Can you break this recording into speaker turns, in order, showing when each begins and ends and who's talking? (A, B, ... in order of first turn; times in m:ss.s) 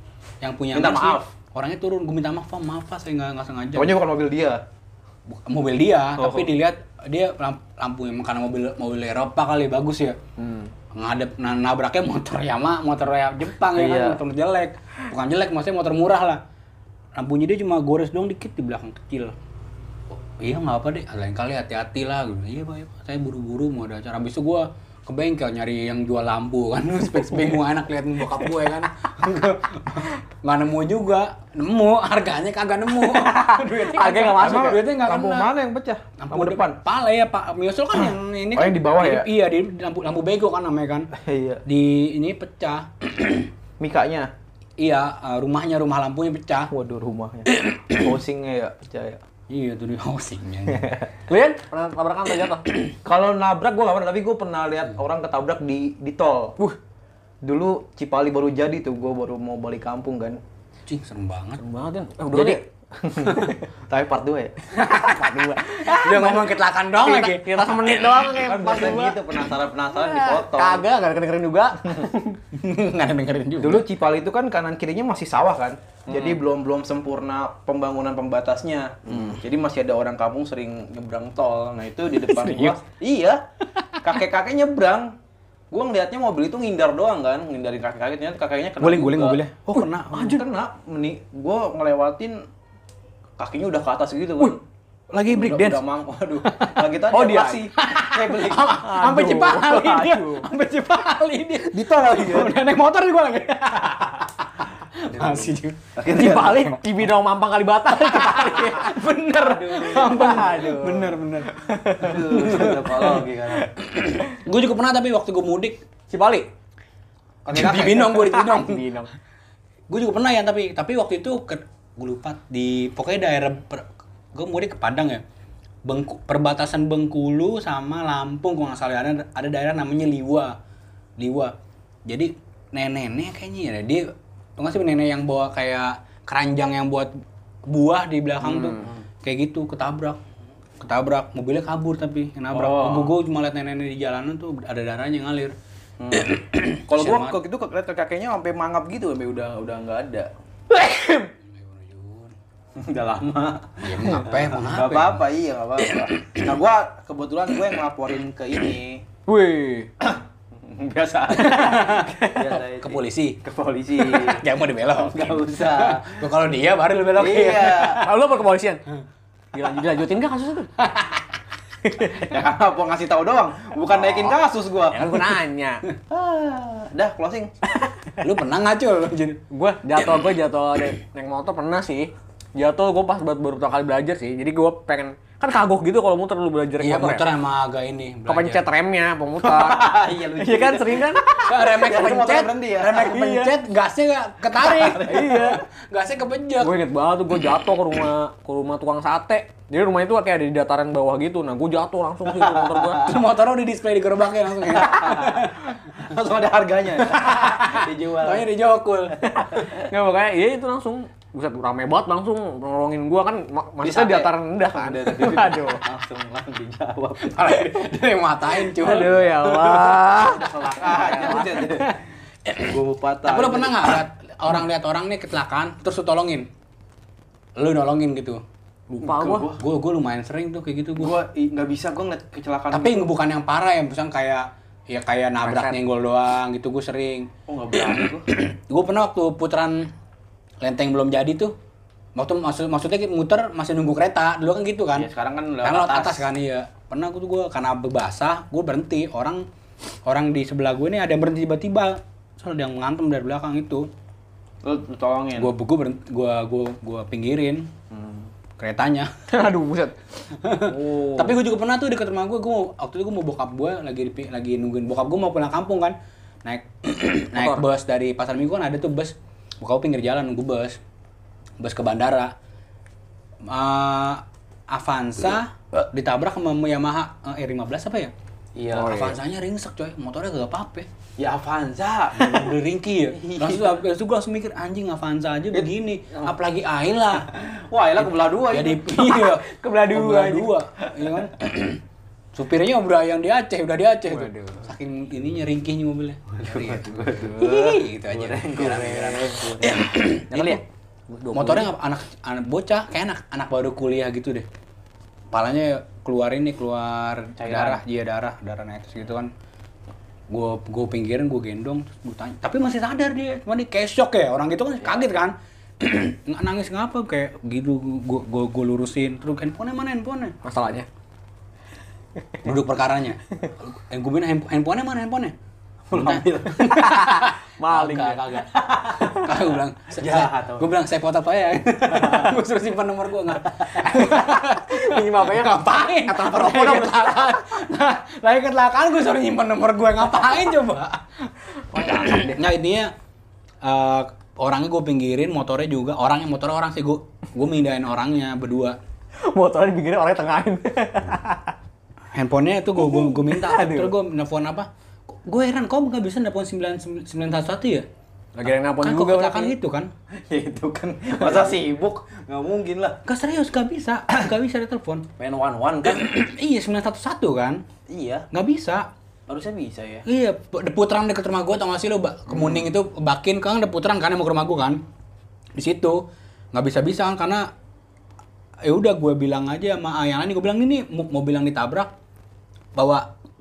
0:00.4-0:04.0 A
0:00.7-0:01.3 B
0:03.8-0:04.6 B
0:05.3-0:10.2 A
0:06.2-0:06.5 B
0:10.9-0:16.4 A
0:13.8-0:14.2 B
0:17.2-0:19.4 A
0:20.2-0:35.5 A
0:33.0-0:34.8 C
0:34.4-0:36.8 B
0:36.2-0:41.1 A
0:38.6-0:39.3 B
0:41.1-0:41.6 B
0:41.6-0:43.5 A
0:43.8-0:44.3 B
0:44.8-0:46.7 A
0:46.7-0:49.2 B
0:47.5-0:48.1 A
0:49.5-0:51.0 A
0:50.7-0:51.1 B
0:51.3-0:52.6 C
0:53.0-0:56.6 B
0:57.4-1:00.4 B
1:00.9-1:01.6 A
1:01.6-1:02.6 C
1:02.3-1:04.6 B
1:03.3-1:03.6 C
1:04.8-1:08.4 A
1:04.9-1:09.4 C
1:08.4-1:10.8 B
1:09.9-1:12.4 C
1:12.5-1:13.8 A
1:13.6-1:23.4 B
1:22.2-1:22.8 A
1:24.0-1:25.1 B
1:25.7-1:29.4 B
1:28.8-1:30.4 A
1:30.1-1:32.4 B
1:33.4-1:34.6 B
1:35.1-1:35.8 A
1:35.3-1:38.8 B
1:36.5-1:36.9 A
1:37.1-1:37.7 C
1:37.8-1:46.7 A
1:38.8-1:40.5 C
1:41.7-1:42.6 B
1:45.0-1:46.7 B
1:46.1-1:48.9 C
1:47.9-1:53.2 A
1:49.4-1:50.7 B
1:49.8-1:52.4 C
1:52.0-1:53.7 B
1:53.8-1:55.8 A
1:56.1-1:56.5 C
1:57.5-1:58.2 B
1:57.5-1:58.8 A
1:57.6-1:59.1 C
1:59.9-2:05.2 A
2:05.9-2:10.5 A
2:11.2-2:11.5 A
2:12.1-2:17.1 A
2:17.7-2:20.2 A
2:18.4-2:19.0 B
2:20.8-2:25.6 A
2:22.5-2:23.1 B
2:26.0-2:30.3 B
2:26.2-2:27.4 A
2:30.7-2:31.3 C
2:31.4-2:32.4 A
2:32.8-2:39.0 B
2:33.8-2:35.2 A
2:35.8-2:36.4 A
2:39.3-2:39.9 C
2:40.0-2:44.4 B
2:41.4-2:42.4 C
2:41.5-2:42.1 A
2:42.7-2:43.4 A
2:44.0-2:48.1 A
2:45.0-2:46.2 B
2:47.2-2:48.0 B
2:48.0-2:48.8 C
2:49.5-2:50.7 C
2:50.8-2:51.3 A
2:51.8-2:52.1 C
2:52.0-2:55.0 B
2:54.9-2:55.8 C
2:56.1-2:57.5 B
2:58.2-2:59.4 A
2:59.5-3:07.3 C
3:06.8-3:08.6 A
3:08.3-3:11.3 C
3:09.4-3:13.2 B
3:11.4-3:16.8 A
3:13.0-3:13.5 C
3:14.6-3:15.3 B
3:15.0-3:15.6 C
3:16.6-3:23.1 C
3:22.3-3:23.1 B
3:23.0-3:26.0 A
3:24.6-3:28.5 B
3:27.0-3:29.3 A
3:29.2-3:29.9 B
3:29.5-3:35.8 C
3:33.8-3:37.5 B
3:37.2-3:40.1 A
3:38.6-3:41.6 C
3:40.2-3:42.0 B
3:41.0-3:41.9 A
3:42.5-3:46.5 A
3:42.6-3:43.9 B
3:47.6-3:48.4 A
3:48.9-3:49.5 C
3:49.0-3:49.6 B
3:49.6-3:51.2 A
3:51.0-3:53.1 B
3:52.7-3:57.3 A
3:55.4-3:55.8 C
3:57.5-3:58.3 B
3:57.8-3:59.9 A
4:00.6-4:01.5 A
4:02.2-4:05.1 A
4:05.0-4:06.3 B
4:05.6-4:09.4 A
4:10.1-4:13.9 A
4:14.6-4:15.5 B
4:15.4-4:17.7 A
4:17.9-4:18.3 B
4:18.6-4:19.1 A
4:19.3-4:20.0 C
4:20.4-4:30.8 A
4:20.7-4:21.2 B
4:20.9-4:21.3 C
4:27.4-4:27.6 C
4:31.6-4:32.3 A
4:33.4-4:38.1 A
4:38.6-4:38.9 B
4:38.7-4:39.2 C
4:38.8-4:40.9 A
4:41.2-4:42.5 B
4:42.2-4:47.3 A
4:43.1-4:43.8 B
4:45.5-4:46.3 B
4:47.3-4:51.2 B
4:48.0-4:51.8 A
4:49.6-4:50.5 C
4:52.4-5:00.6 A
4:54.1-4:54.6 C
4:56.3-5:00.6 B
5:01.3-5:01.7 C
5:01.3-5:04.5 A
5:05.3-5:09.3 A
5:07.4-5:07.8 B
5:10.3-5:20.4 A
5:20.4-5:20.9 C
5:22.4-5:25.4 A
5:25.9-5:26.8 B
5:25.9-5:42.9 A
5:26.7-5:28.4 C
5:28.6-5:29.3 B
5:30.0-5:30.7 B
5:31.9-5:32.3 B
5:33.6-5:34.1 B
5:34.1-5:37.4 C
5:41.7-5:42.4 C
5:43.6-5:48.8 A
5:49.3-5:51.6 C
5:52.1-5:57.9 A
5:52.8-5:53.9 C
5:58.4-5:59.6 C
5:58.8-5:59.9 A
6:00.2-6:03.0 B
6:03.0-6:05.1 A
6:05.2-6:06.1 B
6:05.8-6:07.6 A
6:07.9-6:08.3 B
6:08.3-6:08.9 A
6:09.3-6:10.0 B
6:10.1-6:14.8 A
6:12.3-6:12.6 B
6:15.6-6:16.0 A
6:16.5-6:17.5 A
6:18.6-6:21.9 A
6:22.8-6:23.1 A